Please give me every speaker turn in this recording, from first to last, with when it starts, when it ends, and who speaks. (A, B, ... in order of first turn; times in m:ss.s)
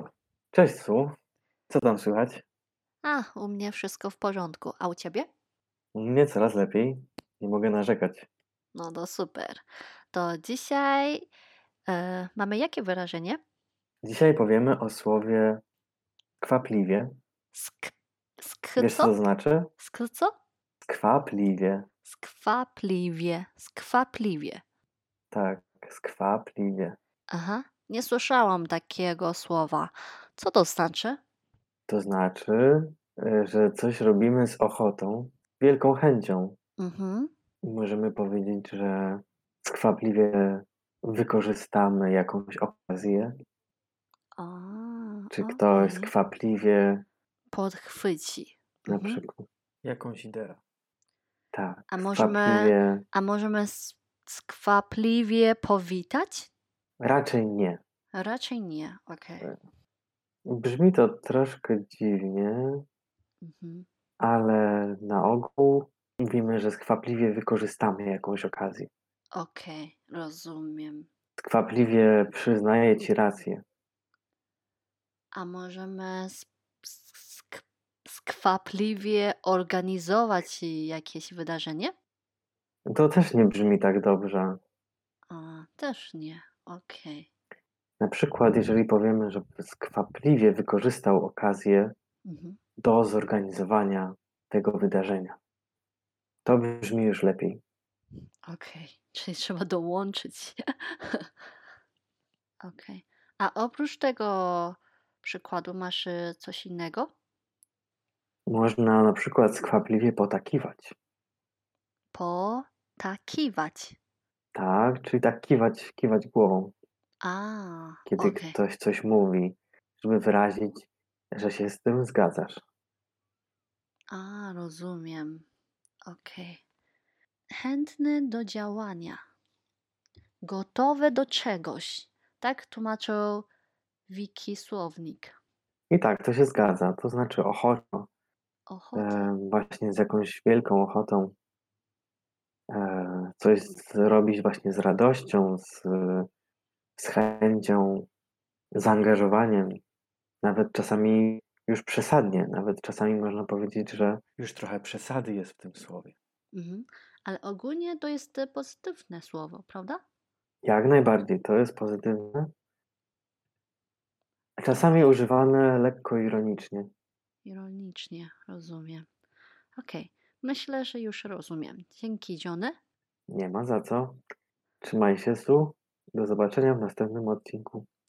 0:00.5-0:01.2 A
0:01.7-0:02.4 A
0:03.0-0:05.3 B
0:05.9-0:08.3 A
0:08.7-0:11.3 B
0:11.9-0:13.4 B
0:14.0-0:15.6 A
0:16.4-0:17.1 A
0:17.5-0:19.1 B
0:18.8-0:19.7 A
0:19.8-0:20.3 B
0:20.8-0:21.9 A
0:22.0-0:24.6 B
0:25.3-0:27.0 A
0:27.3-0:31.2 B
0:31.9-0:36.6 A
0:36.8-0:37.3 B
0:37.6-0:43.4 A
0:44.4-0:46.1 B
0:45.3-0:47.0 A
0:47.5-0:49.2 B
0:48.9-0:50.6 A
0:51.5-0:53.0 A
0:51.9-0:56.5 B
0:57.0-0:57.8 A
0:58.1-0:59.5 B
1:00.5-1:02.8 A
1:03.4-1:03.9 B
1:04.2-1:08.9 A
1:09.4-1:11.1 B
1:11.4-1:13.6 A
1:15.3-1:21.9 B
1:22.9-1:24.6 A
1:25.3-1:27.3 B
1:28.0-1:32.0 A
1:32.2-1:32.6 B
1:32.8-1:35.4 A
1:36.4-1:37.6 A
1:38.5-1:41.3 B
1:42.6-1:47.1 B
1:48.5-1:51.0 A
1:52.1-1:54.0 B
1:54.6-1:56.7 A
1:57.2-1:58.6 B
1:58.1-2:02.6 A
2:04.1-2:05.5 B
2:06.1-2:06.6 B
2:07.6-2:09.2 B
2:10.4-2:13.5 B
2:14.1-2:15.4 B
2:15.9-2:18.1 A
2:18.7-2:19.3 B
2:19.0-2:21.4 A
2:22.7-2:26.3 A
2:27.0-2:28.1 A
2:28.8-2:29.8 A
2:30.4-2:36.2 A
2:36.5-2:40.0 B
2:40.6-2:42.5 A
2:44.6-2:46.9 A
2:47.4-2:49.1 B
2:49.8-2:52.8 B
2:53.3-2:54.2 A
2:54.8-2:57.9 A